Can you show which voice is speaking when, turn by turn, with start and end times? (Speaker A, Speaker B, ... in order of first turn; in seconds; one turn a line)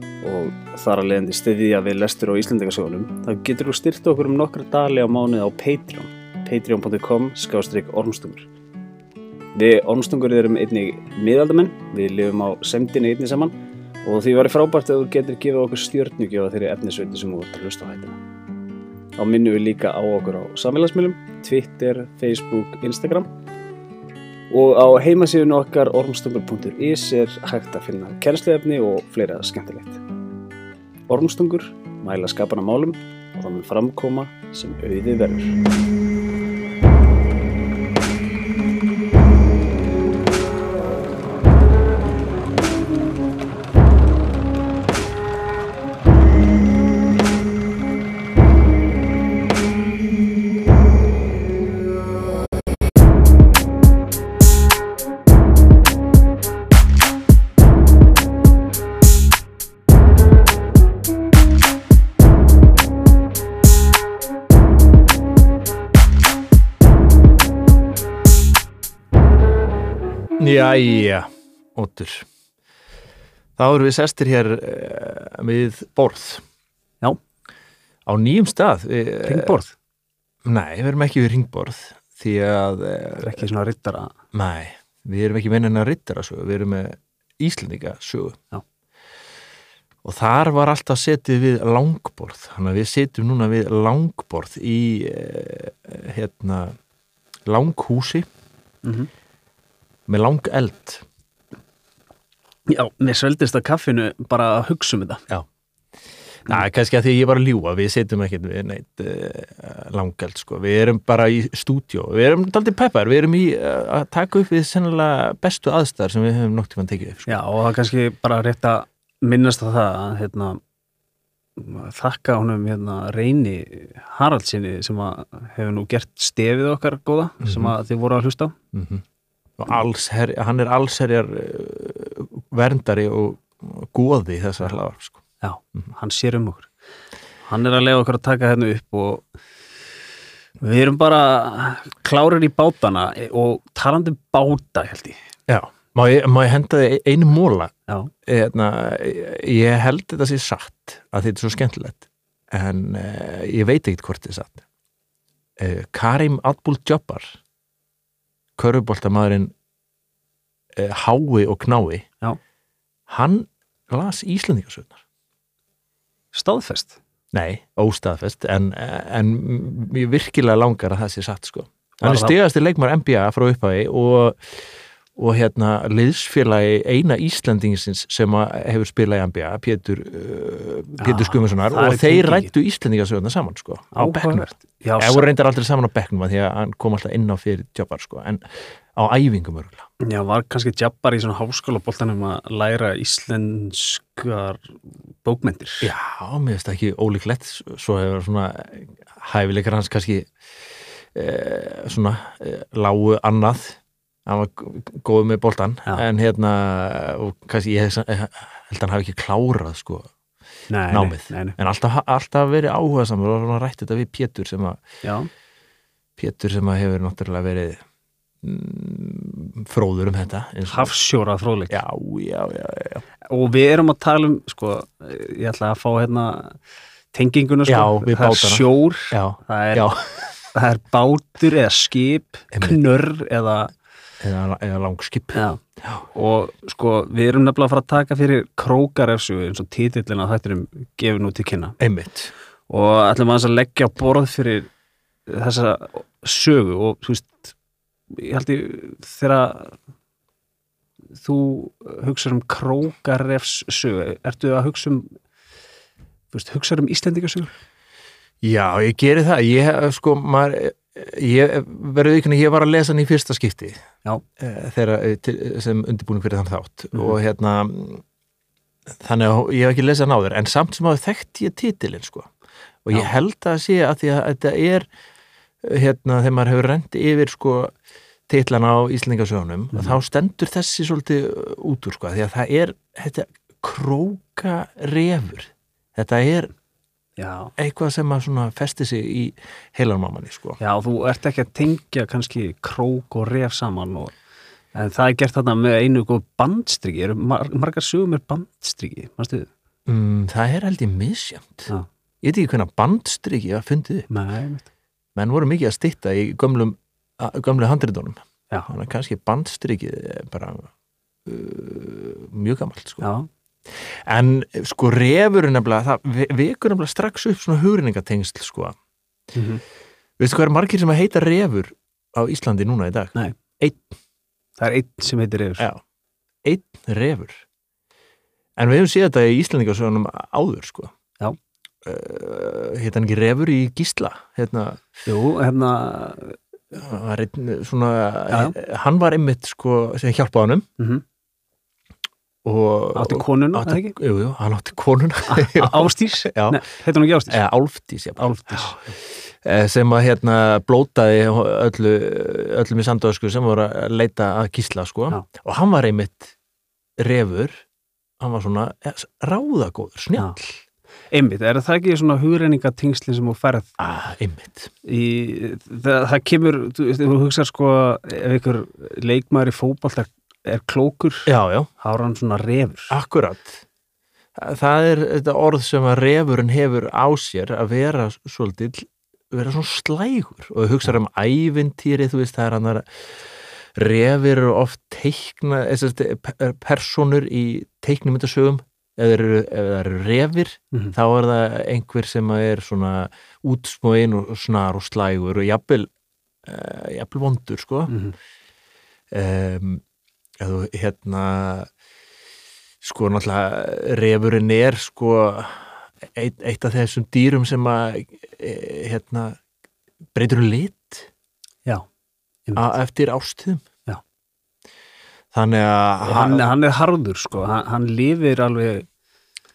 Speaker A: 0.2-8.5
Speaker A: 9.6-18.2
Speaker A: 19.2-23.3
Speaker A: 24.5-30.0
Speaker A: 31.1-35.6
Speaker B: 70.4-72.3
Speaker B: 73.6-76.4
Speaker B: 78.1-79.6
Speaker A: 79.2-79.7
Speaker B: 80.5-83.4
Speaker A: 83.2-84.1
Speaker B: 84.3-88.4
Speaker B: 90.0-96.8
Speaker B: 97.5-98.3
Speaker A: 98.8-99.1
Speaker B: 100.1-101.0
Speaker A: 102.7-105.2
Speaker B: 106.5-117.5
Speaker A: 117.3-120.6
Speaker A: 121.6-128.5
Speaker B: 127.4-127.7
Speaker B: 128.7-129.0
Speaker B: 129.6-135.2
Speaker A: 135.4-136.7
Speaker A: 137.5-139.2
Speaker A: 140.6-145.2
Speaker B: 145.5-147.7
Speaker B: 148.3-154.7
Speaker B: 155.6-157.4
Speaker B: 158.6-159.5
Speaker B: 160.8-162.1
Speaker B: 163.1-165.0
Speaker A: 166.3-167.0
Speaker B: 167.3-174.7
Speaker A: 172.0-172.4
Speaker B: 175.2-188.4
Speaker A: 181.0-182.5
Speaker A: 183.9-185.3
Speaker B: 189.0-189.9
Speaker A: 190.1-195.9
Speaker B: 195.8-200.3
Speaker B: 201.1-210.1
Speaker A: 210.7-211.6
Speaker B: 210.9-214.8
Speaker A: 215.0-215.3
Speaker B: 216.2-217.8
Speaker B: 218.4-220.9
Speaker A: 220.7-221.8
Speaker B: 221.7-223.0
Speaker A: 223.3-226.6
Speaker A: 227.1-229.9
Speaker B: 227.7-230.3
Speaker A: 230.5-233.7
Speaker B: 232.5-232.8
Speaker B: 234.2-236.1
Speaker A: 235.3-235.6
Speaker A: 236.1-241.8
Speaker B: 241.8-242.3
Speaker A: 242.7-244.7
Speaker A: 245.3-247.5
Speaker A: 248.1-249.8
Speaker A: 251.2-255.1
Speaker A: 256.3-257.5
Speaker B: 258.4-263.8
Speaker B: 264.4-268.0
Speaker B: 269.0-272.3
Speaker B: 272.9-274.9
Speaker B: 275.6-277.7
Speaker B: 278.3-286.5
Speaker A: 279.7-280.0
Speaker A: 287.2-287.5
Speaker B: 287.6-290.6
Speaker A: 290.6-294.1
Speaker A: 294.8-299.5
Speaker B: 299.9-301.7
Speaker B: 302.2-304.1
Speaker A: 304.1-304.7
Speaker B: 305.2-310.7
Speaker B: 311.3-313.1
Speaker A: 313.0-313.3
Speaker B: 314.1-318.8
Speaker A: 319.3-319.6
Speaker B: 320.2-323.9
Speaker A: 324.6-325.7
Speaker B: 326.4-327.4
Speaker B: 328.6-330.9
Speaker B: 331.9-334.8
Speaker A: 335.1-336.4
Speaker B: 336.7-340.7
Speaker A: 338.3-338.6
Speaker B: 342.4-346.6
Speaker A: 342.9-344.0
Speaker A: 345.3-347.4
Speaker B: 347.3-356.4
Speaker A: 348.2-348.9
Speaker B: 357.0-357.6
Speaker B: 358.2-360.6
Speaker A: 361.1-363.7
Speaker B: 363.8-364.7
Speaker A: 364.9-372.9
Speaker B: 371.3-371.7
Speaker B: 372.9-373.6
Speaker B: 374.4-395.9
Speaker B: 396.4-397.9
Speaker A: 397.9-398.2
Speaker B: 399.1-399.8
Speaker B: 400.4-401.7
Speaker B: 402.8-409.4
Speaker B: 410.1-411.1
Speaker A: 412.5-412.7
Speaker B: 412.6-413.6
Speaker B: 415.3-416.5
Speaker A: 416.0-418.9